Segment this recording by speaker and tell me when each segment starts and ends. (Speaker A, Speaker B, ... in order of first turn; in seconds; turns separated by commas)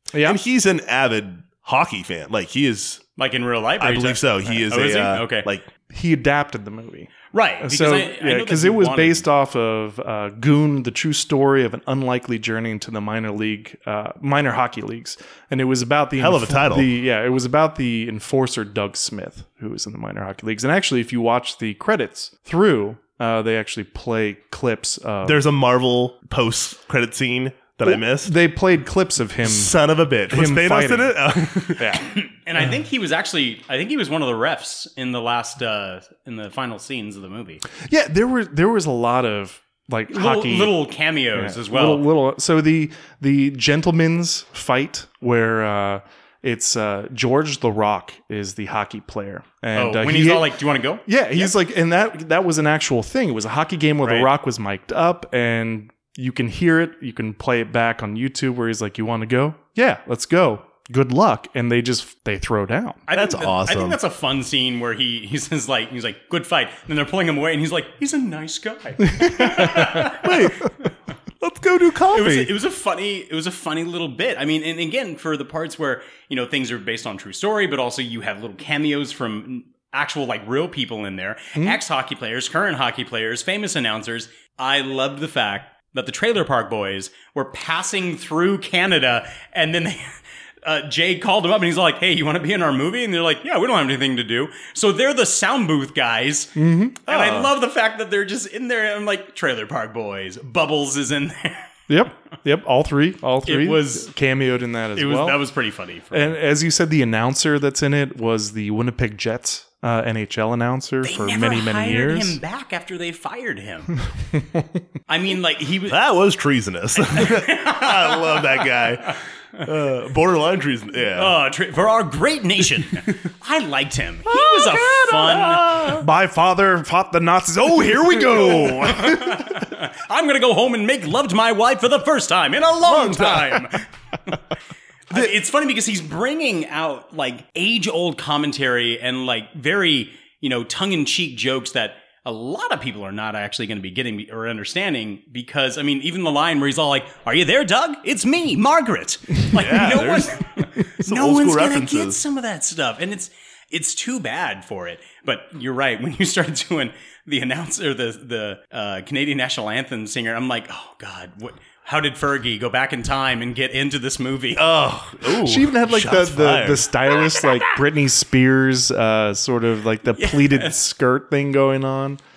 Speaker A: 0.1-0.4, Speaker B: 0.2-3.0, Speaker C: 3.2-5.5, Speaker B: 3.8-5.7, Speaker A: 5.8-25.4, Speaker C: 7.3-9.2, Speaker B: 16.2-16.9, Speaker B: 25.2-28.4, Speaker A: 27.9-29.8, Speaker B: 29.4-31.9, Speaker A: 30.3-31.2, Speaker A: 31.8-32.1, Speaker C: 32.0-37.6, Speaker A: 37.8-50.5, Speaker C: 40.1-42.1, Speaker C: 49.7-51.5, Speaker A: 51.0-63.0, Speaker C: 54.0-54.3, Speaker C: 63.1-70.2, Speaker B: 63.1-64.0, Speaker A: 69.0-70.2, Speaker B: 70.2-70.7, Speaker B: 71.4-72.5, Speaker C: 72.1-101.7, Speaker A: 96.5-97.1, Speaker B: 97.1-97.5, Speaker A: 101.9-105.4, Speaker C: 103.5-104.1, Speaker C: 104.9-106.4, Speaker A: 106.1-112.4, Speaker C: 111.0-113.9, Speaker A: 114.2-114.8, Speaker C: 115.1-116.0, Speaker B: 115.9-121.3, Speaker C: 117.0-118.7, Speaker C: 121.2-126.0, Speaker B: 124.5-126.0, Speaker A: 125.9-129.7, Speaker C: 128.4-133.8, Speaker A: 132.8-133.6, Speaker C: 135.1-164.6, Speaker B: 149.5-152.2, Speaker B: 164.6-167.0, Speaker A: 165.3-172.2, Speaker C: 170.1-170.8